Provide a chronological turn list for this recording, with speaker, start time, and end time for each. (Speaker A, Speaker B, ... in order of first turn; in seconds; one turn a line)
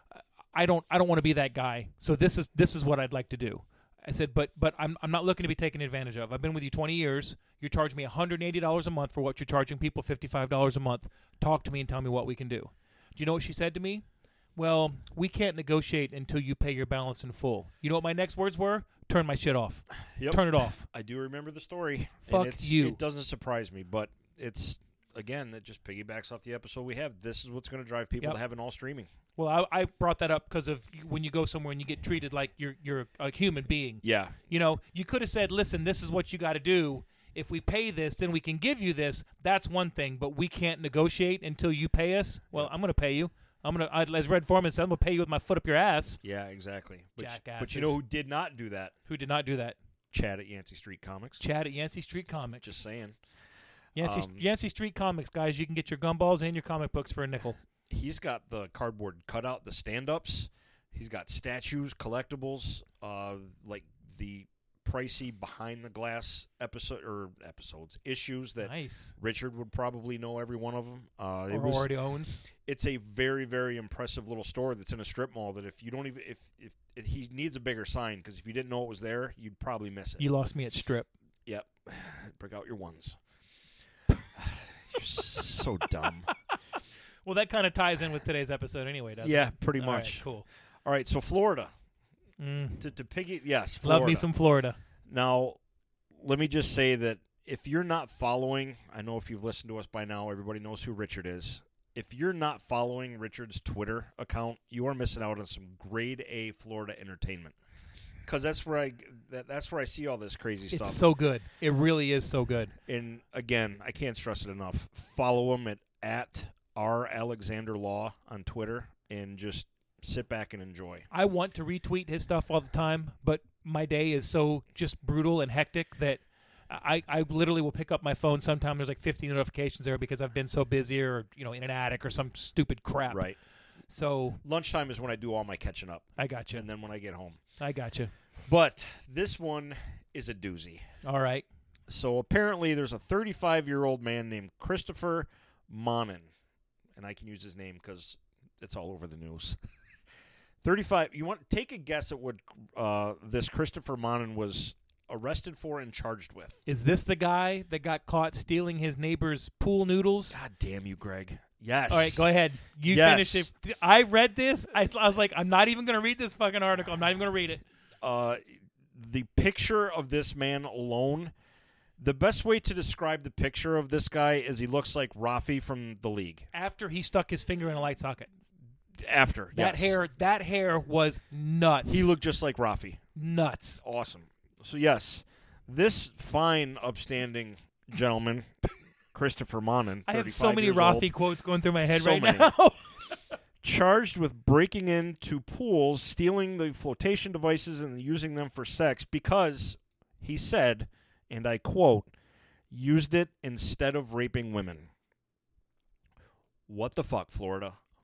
Speaker A: 0.5-14.0
Speaker A: 14.6-20.9
Speaker B: 20.1-29.1
Speaker A: 22.3-23.0
Speaker A: 29.4-46.2
Speaker B: 34.0-34.4
Speaker B: 46.2-48.9
Speaker A: 47.2-48.0
Speaker A: 49.1-49.8
Speaker B: 50.1-51.4
Speaker A: 51.4-52.8
Speaker B: 52.6-53.1
Speaker A: 54.0-57.6
Speaker B: 54.0-54.4
Speaker B: 57.9-71.9
Speaker A: 68.6-69.1
Speaker A: 71.5-72.4
Speaker B: 72.6-80.3
Speaker A: 80.2-81.1
Speaker B: 81.5-83.2
Speaker B: 84.3-86.3
Speaker A: 87.2-90.4
Speaker B: 89.2-90.2
Speaker B: 90.8-91.7
Speaker A: 92.4-92.8
Speaker B: 92.8-94.3
Speaker A: 93.8-94.8
Speaker B: 95.1-95.6
Speaker B: 96.2-107.5
Speaker B: 108.2-111.0
Speaker A: 110.7-112.7
Speaker B: 112.9-121.1
Speaker A: 121.1-133.3
Speaker B: 133.1-133.4
Speaker A: 133.9-134.4
Speaker B: 134.4-137.4
Speaker A: 136.2-136.7
Speaker A: 137.6-138.1
Speaker B: 138.5-140.9
Speaker A: 141.0-141.4
Speaker B: 141.9-146.3
Speaker B: 146.9-149.6
Speaker B: 150.6-156.6
Speaker A: 156.7-160.4
Speaker B: 160.3-162.2
Speaker A: 161.9-167.6
Speaker B: 162.8-163.5
Speaker B: 168.0-168.4
Speaker B: 168.9-171.3
Speaker B: 172.0-176.4
Speaker A: 176.5-178.3
Speaker B: 179.0-180.0
Speaker A: 179.5-182.1
Speaker B: 181.8-183.0
Speaker A: 183.2-183.8
Speaker B: 183.8-188.5
Speaker B: 189.1-191.1
Speaker A: 190.1-193.2
Speaker B: 191.9-192.5
Speaker B: 193.6-202.1
Speaker B: 202.7-204.9
Speaker B: 206.7-207.8